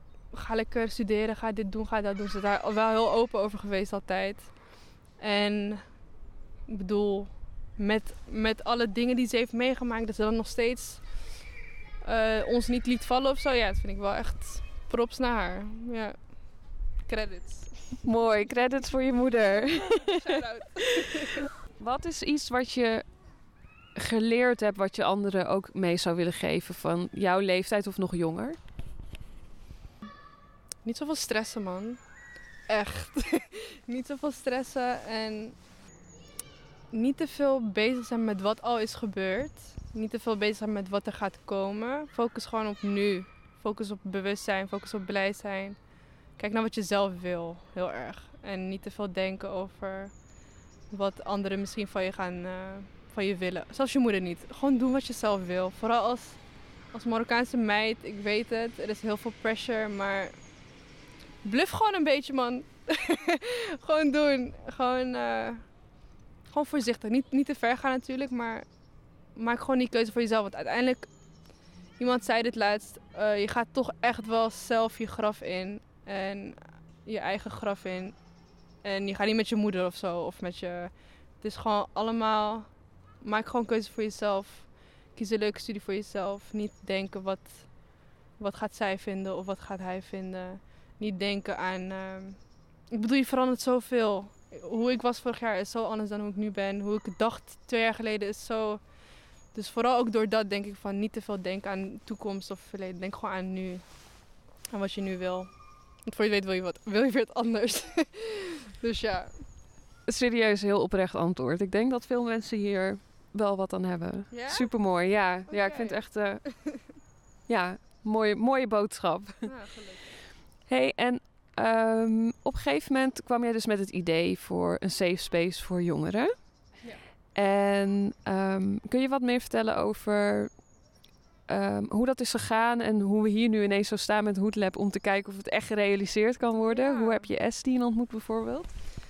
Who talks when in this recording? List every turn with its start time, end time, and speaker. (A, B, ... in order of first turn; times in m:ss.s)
0:00.3-0:06.1 A
0:06.7-0:11.4 A
0:12.0-0:18.5 A
0:18.0-0:20.3 B
0:20.0-0:21.3 A
0:21.8-0:23.1 B
0:23.9-0:28.6 B
0:30.8-0:32.1 A
0:32.6-0:35.6 A
0:36.9-1:00.5 A
1:01.4-1:05.6 A
1:06.4-1:08.7 A
1:09.3-1:11.1 A
1:12.0-1:49.4 A
1:50.0-1:59.5 B
1:54.3-1:54.8 A
1:55.5-1:56.7 A
1:59.4-2:00.1 A
2:00.6-2:06.8 B
2:07.3-2:10.7 B
2:11.5-2:18.8 B
2:16.5-2:17.3 A